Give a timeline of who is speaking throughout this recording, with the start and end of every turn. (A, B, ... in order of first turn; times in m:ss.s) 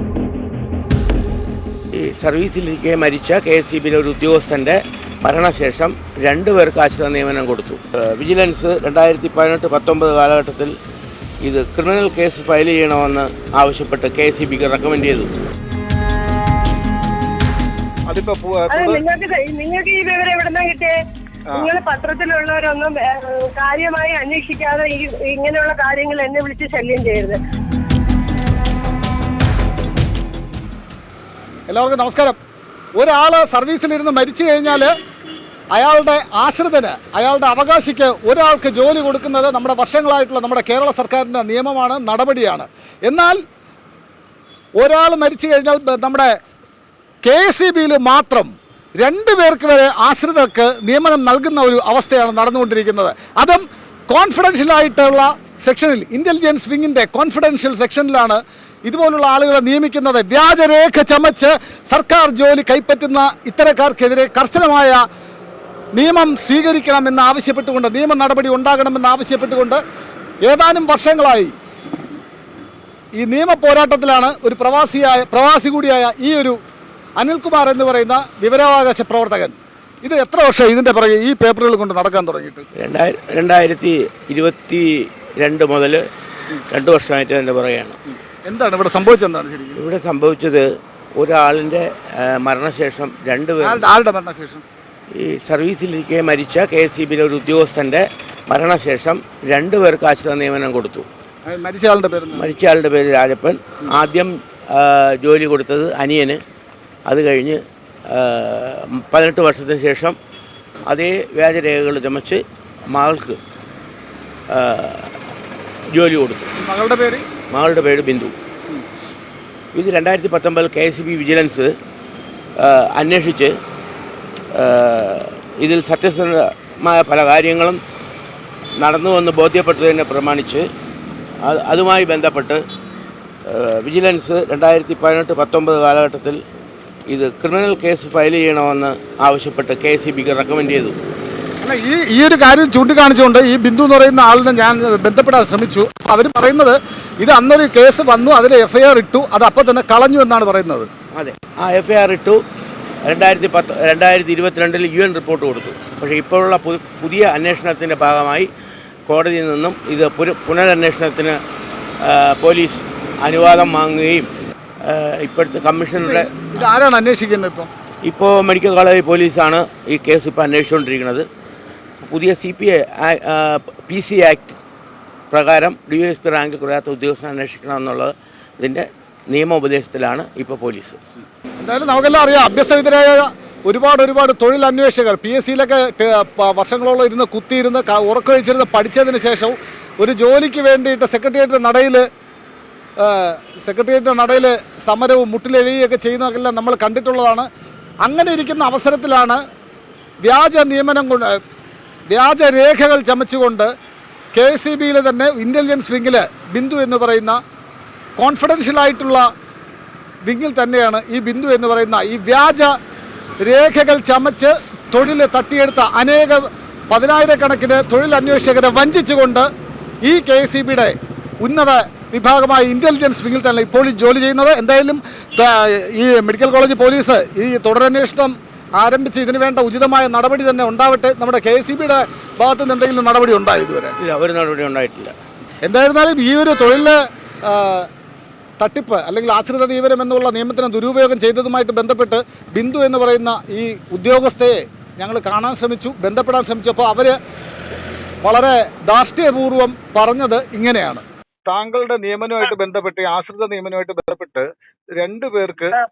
0:01.9-0:10.7 A
0:11.4-0:15.3 A
0:18.1-0:19.0 B
0:18.7-0:21.0 C
0:21.5-0:27.4 C
0:31.7-0:32.4 D
0:33.0-0:34.9 D
0:35.7-0:43.4 D
0:44.8-0:46.4 D
0:47.2-1:05.0 D
1:05.9-1:09.8 D
1:10.4-1:11.5 D
1:13.2-1:16.6 D
1:17.2-1:22.7 D
1:22.8-1:26.0 A
1:26.7-1:28.0 A
1:28.3-1:29.8 D
1:29.8-1:33.8 A
1:33.6-1:34.6 D
1:35.2-1:41.1 A
1:41.4-1:42.5 D
1:42.3-1:46.4 A
1:47.1-1:50.2 A
1:50.9-1:53.4 A
1:54.5-1:55.1 A
1:55.9-1:56.5 A
1:56.6-1:57.2 D
1:57.5-1:58.3 A
1:59.7-2:01.7 A
2:02.6-2:03.5 A
2:04.5-2:07.8 A
2:08.8-2:10.6 A
2:11.4-2:12.6 A
2:13.5-2:16.4 A
2:17.1-2:21.0 A
2:21.6-2:30.9 D
2:31.1-2:32.4 A
2:33.0-2:38.5 A
2:39.1-2:41.4 A
2:42.0-2:44.3 A
2:44.8-2:46.7 A
2:46.0-2:47.7 D
2:48.0-2:51.3 A
2:52.0-2:54.6 A
2:55.3-3:01.0 A
3:01.6-3:12.0 D
3:13.0-3:17.4 D
3:18.0-3:19.4 D
3:20.2-3:21.4 D
3:22.1-3:23.7 D
3:24.3-3:27.4 D
3:28.2-3:29.2 D
3:30.2-3:32.7 D
3:33.4-3:39.5 D
3:40.0-3:53.9 D
3:54.0-3:55.1 A
3:55.6-3:57.9 D
3:58.6-4:07.1 D
4:08.2-4:11.0 D
4:11.5-4:14.5 B
4:15.0-4:15.7 B